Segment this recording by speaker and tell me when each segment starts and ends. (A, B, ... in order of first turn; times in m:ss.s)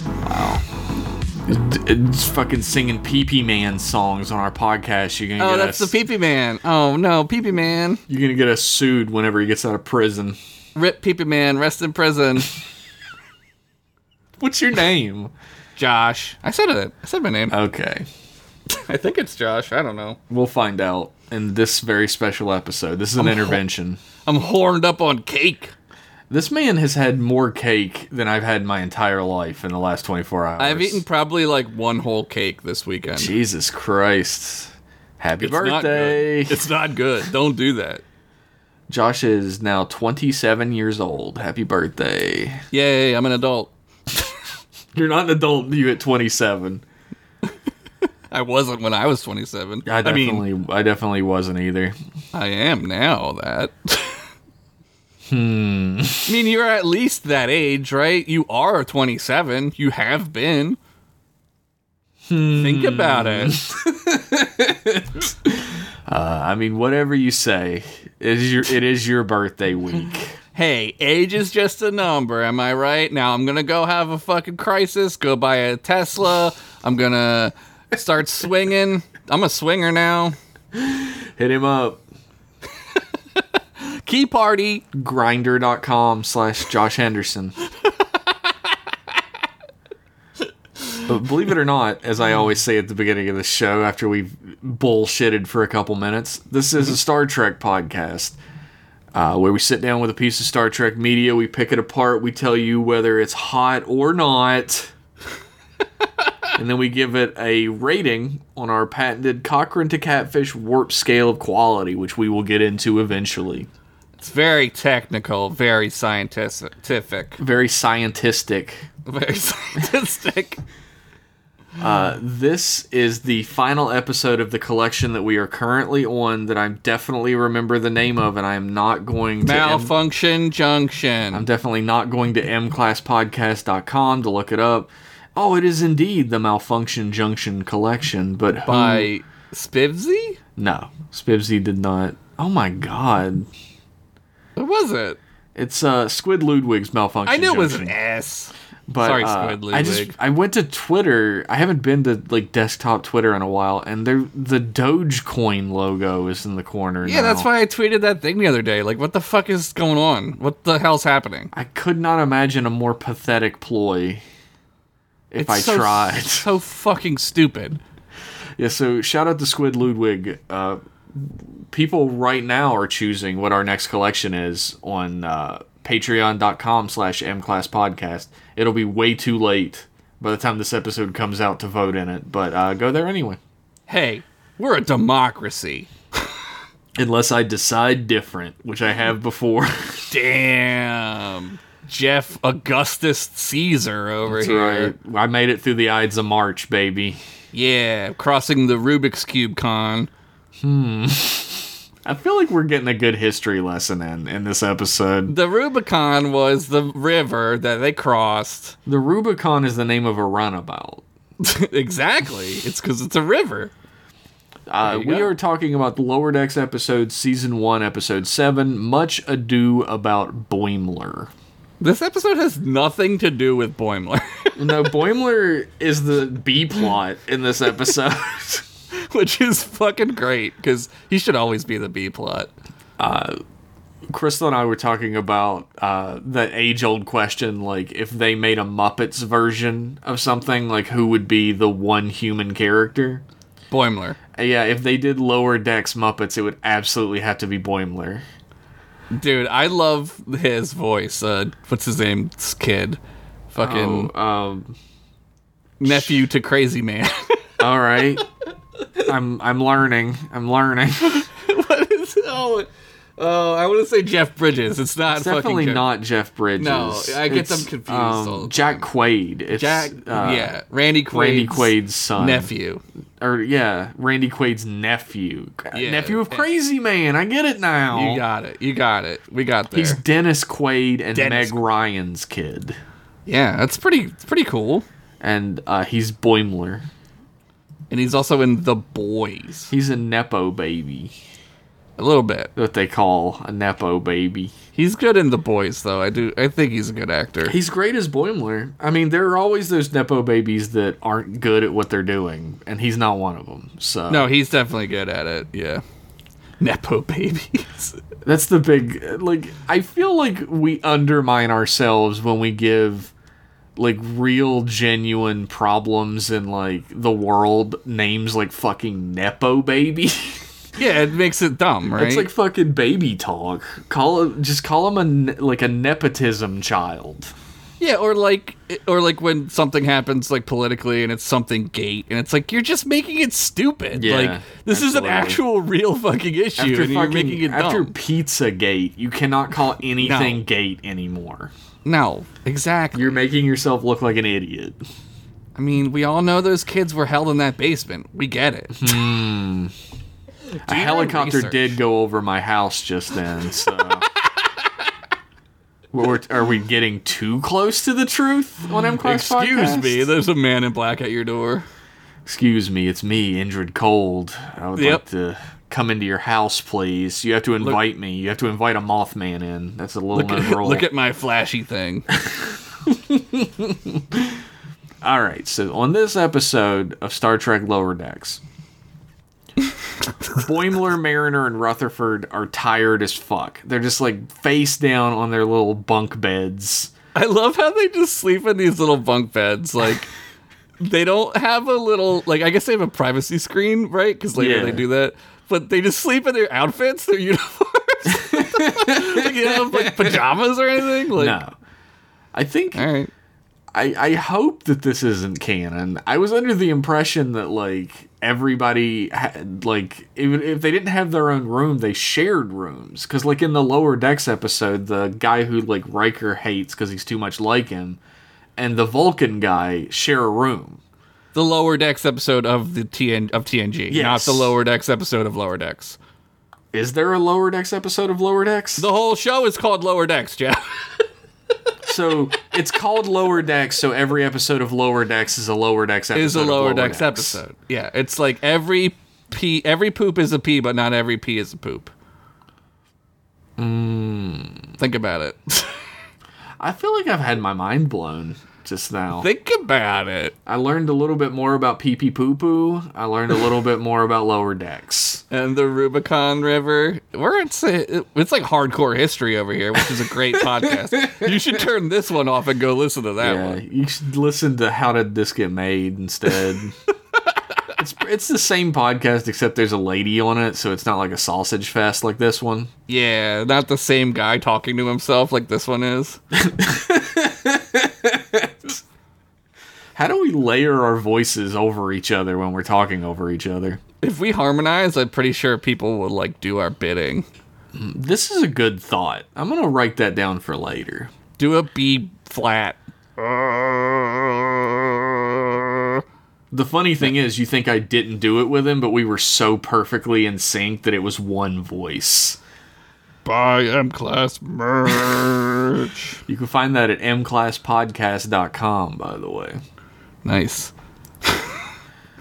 0:00.2-0:00.7 A
0:01.4-0:05.9 A
0:05.4-0:08.0 B
0:08.1-0:10.4 A
0:10.8-0:12.5 B
0:14.4-0:15.3 A
0:15.8-0:17.6 B
0:17.5-0:18.1 A
0:18.8-0:20.2 B
0:20.3-0:24.0 A
0:23.2-0:23.6 B
0:24.2-0:25.7 B
0:26.3-0:31.0 A
0:30.6-0:33.3 B
0:33.2-0:36.7 A
0:35.4-0:38.0 B
0:38.9-0:42.6 A
0:42.7-0:43.7 B
0:45.0-0:46.8 A
0:48.3-0:50.4 B
0:49.9-0:52.0 A
0:52.3-0:54.2 B
0:55.3-0:56.4 A
0:56.3-1:00.8 B
1:02.3-1:10.4 A
1:02.6-1:03.6 B
1:10.6-1:20.4 B
1:20.8-1:22.0 A
1:23.8-1:24.8 B
1:24.9-1:27.6 A
1:31.1-1:38.4 A
1:39.1-1:44.9 A
1:46.6-1:53.7 A
1:54.2-1:57.4 B
1:57.4-1:58.9 A
1:59.1-2:00.6 B
2:01.8-2:10.0 A
2:09.4-2:11.5 B
2:11.3-2:19.1 A
2:18.7-2:20.4 B
2:20.6-2:23.5 A
2:24.6-2:25.2 B
2:25.6-2:27.9 A
2:27.3-2:30.2 B
2:28.9-2:37.5 A
2:37.0-2:41.5 B
2:41.5-2:44.2 A
2:45.3-2:46.5 A
2:45.4-2:47.8 B
2:48.6-3:03.4 A
3:03.9-3:05.9 B
3:07.0-3:10.1 A
3:10.1-3:14.9 B
3:14.3-3:17.2 A
3:17.5-3:20.1 B
3:20.6-3:25.3 A
3:25.3-3:28.8 B
3:28.9-3:31.0 A
3:31.4-3:33.7 B
3:34.7-3:41.3 A
3:34.8-3:35.3 B
3:41.8-3:44.7 B
3:44.6-3:48.7 A
3:49.0-3:52.5 B
3:53.0-3:53.4 A
3:54.1-4:03.2 A
4:03.7-4:04.2 B
4:04.4-4:08.2 A
4:09.2-4:13.0 B
4:13.5-4:14.1 B
4:13.6-4:14.8 A
4:15.8-4:17.5 B
4:15.8-4:16.2 A
4:17.6-4:18.2 A
4:19.1-4:21.3 A
4:21.3-4:25.9 B
4:25.1-4:30.5 A
4:26.6-4:28.8 B
4:29.6-4:32.8 B
4:31.1-4:32.5 A
4:33.2-4:38.2 A
4:35.7-4:36.5 B
4:37.9-4:40.0 B
4:39.7-4:42.8 A
4:41.2-4:41.5 B
4:43.3-4:44.9 B
4:45.2-4:46.9 A
4:47.9-4:49.7 B
4:49.7-4:51.2 A
4:52.0-4:52.5 B
4:52.6-4:54.6 A
4:54.7-4:57.6 B
4:57.5-5:04.3 A
5:04.1-5:05.8 B
5:06.6-5:08.0 B
5:08.2-5:13.1 A
5:13.8-5:20.4 A
5:20.8-5:22.3 B
5:21.9-5:27.3 A
5:27.8-5:37.9 B
5:33.9-5:35.4 A
5:36.6-5:41.5 A
5:40.0-5:40.4 B
5:41.8-5:43.2 B
5:42.9-5:44.8 A
5:45.6-5:48.9 B
5:48.8-5:49.7 A
5:50.6-5:51.8 B
5:50.6-5:54.1 A
5:55.9-6:00.1 A
5:59.0-6:01.6 B
6:02.3-6:10.9 A
6:04.8-6:05.0 B
6:10.1-6:12.1 B
6:12.1-6:14.4 A
6:15.0-6:18.4 A
6:20.3-6:26.9 A
6:27.2-6:30.1 B
6:30.8-6:41.4 B
6:34.4-6:34.8 A
6:38.1-6:40.3 A
6:41.1-6:41.5 A
6:42.3-6:42.9 A
6:42.8-6:43.1 B
6:43.7-6:58.0 A
6:58.6-7:00.8 A
7:01.3-7:06.0 B
7:03.9-7:04.5 A
7:06.7-7:08.8 A
7:08.8-7:10.9 B
7:11.8-7:17.4 A
7:16.1-7:21.9 B
7:23.6-7:24.7 A
7:24.8-7:25.8 B
7:26.6-7:29.3 A
7:29.2-7:30.4 B
7:30.5-7:35.2 A
7:35.3-7:43.6 B
7:40.4-7:41.4 A
7:43.2-7:46.8 A
7:47.8-7:52.7 A
7:52.9-7:56.2 B
7:56.4-7:58.8 A
8:00.0-8:03.8 A
8:04.0-8:07.3 B
8:07.7-8:11.1 A
8:11.4-8:16.0 B
8:16.5-8:22.4 A
8:23.2-8:26.2 B
8:26.3-8:29.6 A
8:30.2-8:30.7 B
8:31.2-8:31.6 B